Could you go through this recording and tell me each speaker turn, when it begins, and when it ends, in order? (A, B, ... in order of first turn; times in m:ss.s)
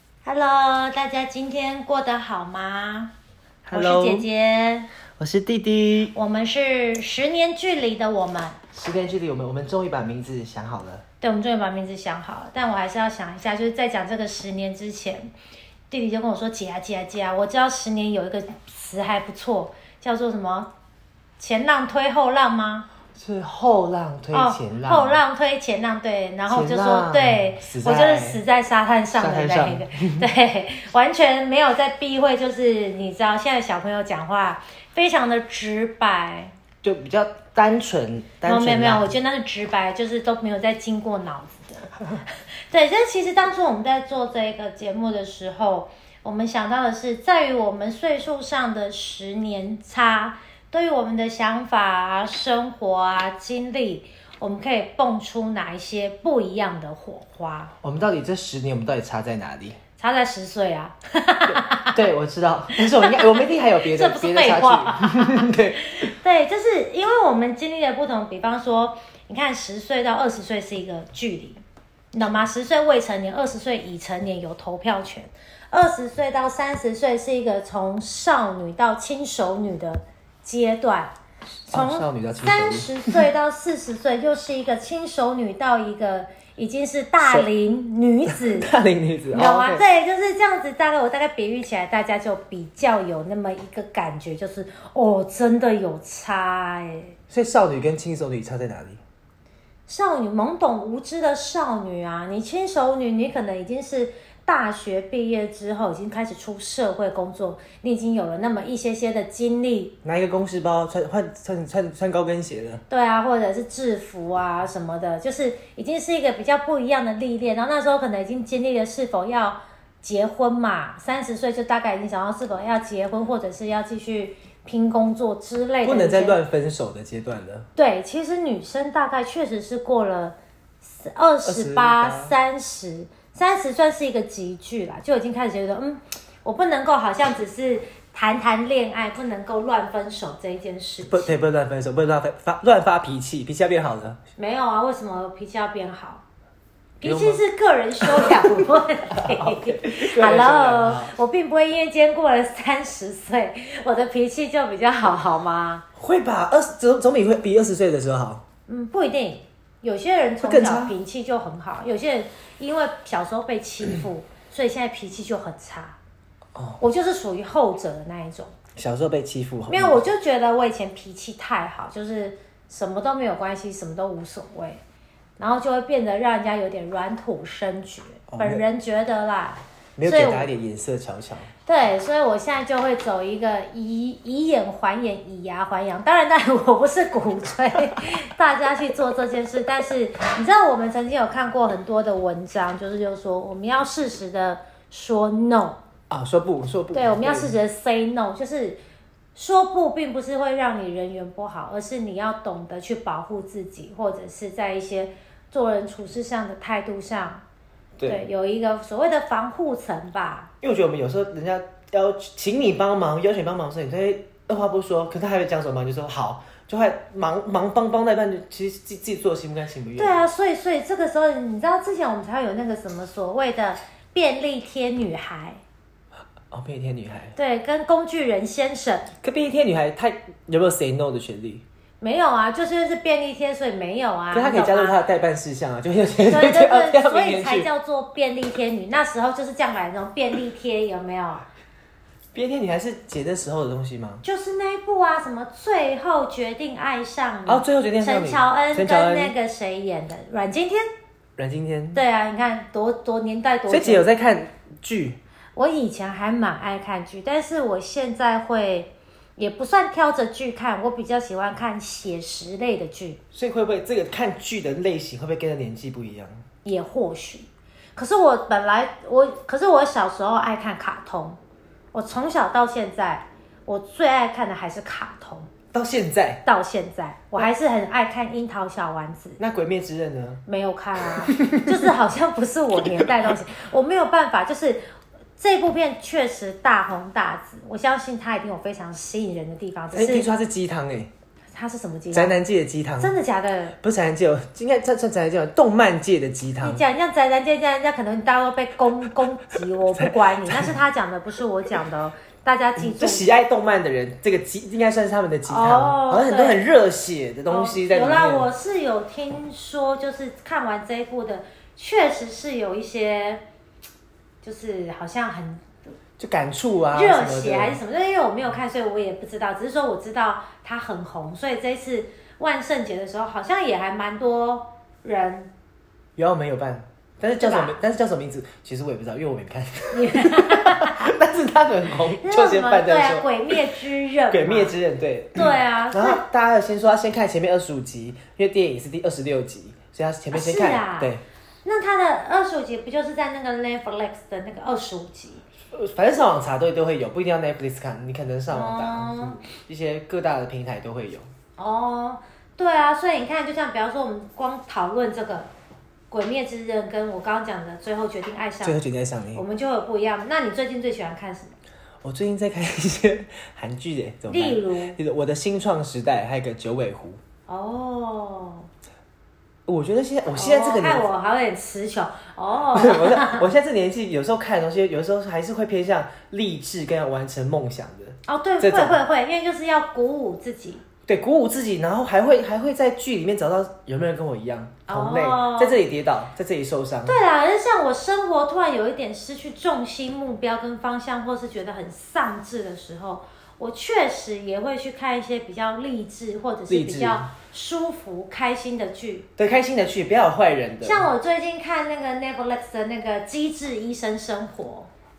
0:00.2-0:03.1 A
0:03.6-0:04.3 B
0:03.7-0:04.9 A
0:05.2-0:06.1 B
0:06.1-0:08.6 A
0:08.7-0:11.0 B
0:11.2-0:15.3 A
0:15.9-0:20.7 A
0:21.4-0:22.9 A
0:23.2-0:25.2 B
0:24.3-0:36.5 A
0:26.5-0:28.4 B
0:29.2-0:30.3 B
0:36.8-0:39.1 B
0:38.4-0:57.7 A
0:57.8-0:59.8 B
1:00.0-1:02.0 A
1:01.4-1:06.1 B
1:02.7-1:21.1 A
1:21.7-1:28.7 A
1:21.7-1:23.3 B
1:27.2-1:27.5 B
1:28.2-1:29.8 B
1:29.3-1:37.1 A
1:37.3-1:39.0 B
1:39.9-1:49.9 A
1:50.0-1:52.8 B
1:52.9-2:06.4 A
2:05.8-2:07.7 B
2:07.8-2:21.3 A
2:11.4-2:12.3 B
2:21.0-2:24.2 B
2:24.4-2:26.2 A
2:27.0-2:35.8 A
2:27.0-2:27.4 B
2:28.0-2:31.1 B
2:36.0-2:38.4 B
2:38.7-2:46.0 A
2:40.4-2:41.0 B
2:46.5-2:46.8 B
2:46.8-2:48.6 A
2:48.8-2:50.0 B
2:49.7-2:54.8 A
2:55.4-3:00.5 A
2:58.3-2:58.6 B
3:00.0-3:01.5 B
3:01.6-3:15.8 A
3:16.1-3:17.5 B
3:16.9-3:18.8 A
3:19.3-3:27.4 A
3:28.0-3:28.2 B
3:28.0-3:30.5 A
3:30.6-3:40.2 B
3:40.0-3:45.6 A
3:46.5-3:47.3 B
3:47.4-3:49.1 A
3:49.2-3:51.6 B
3:52.0-3:55.0 A
3:54.3-3:57.7 B
3:56.3-4:01.5 A
4:02.3-4:04.2 B
4:04.2-4:10.9 A
4:07.4-4:09.3 B
4:11.4-4:12.0 B
4:11.9-4:14.1 A
4:13.7-4:15.2 B
4:15.6-4:23.2 A
4:23.3-4:26.4 B
4:26.6-4:31.4 A
4:31.9-4:35.5 A
4:35.7-4:36.4 B
4:36.4-4:39.4 A
4:39.4-4:40.4 B
4:40.5-4:44.8 A
4:41.3-4:41.7 B
4:45.4-4:50.3 A
4:49.9-4:51.1 B
4:51.5-4:52.4 A
4:52.1-4:53.2 B
4:53.0-4:53.8 A
4:53.8-4:56.8 B
4:56.6-5:03.3 A
4:59.9-5:00.7 B
5:02.8-5:08.5 B
5:05.4-5:06.7 A
5:07.5-5:13.4 A
5:14.4-5:15.6 A
5:16.2-5:17.8 B
5:16.9-5:25.5 A
5:26.2-5:33.6 B
5:27.4-5:27.8 A
5:29.9-5:31.1 A
5:32.2-5:34.8 A
5:34.3-5:41.2 B
5:35.4-5:36.2 A
5:40.3-5:45.4 A
5:45.7-5:51.3 B
5:48.5-5:49.4 A
5:51.6-5:55.5 A
5:56.1-6:01.6 A
5:58.6-5:59.4 B
6:02.0-6:07.2 B
6:04.3-6:05.0 A
6:07.5-6:08.7 A
6:09.7-6:11.0 B
6:10.3-6:13.5 A
6:12.7-6:19.0 B
6:18.3-6:20.8 A
6:21.1-6:27.2 B
6:24.9-6:25.8 A
6:27.0-6:39.3 A
6:36.7-6:37.3 B
6:39.4-6:41.1 B
6:40.8-6:44.9 A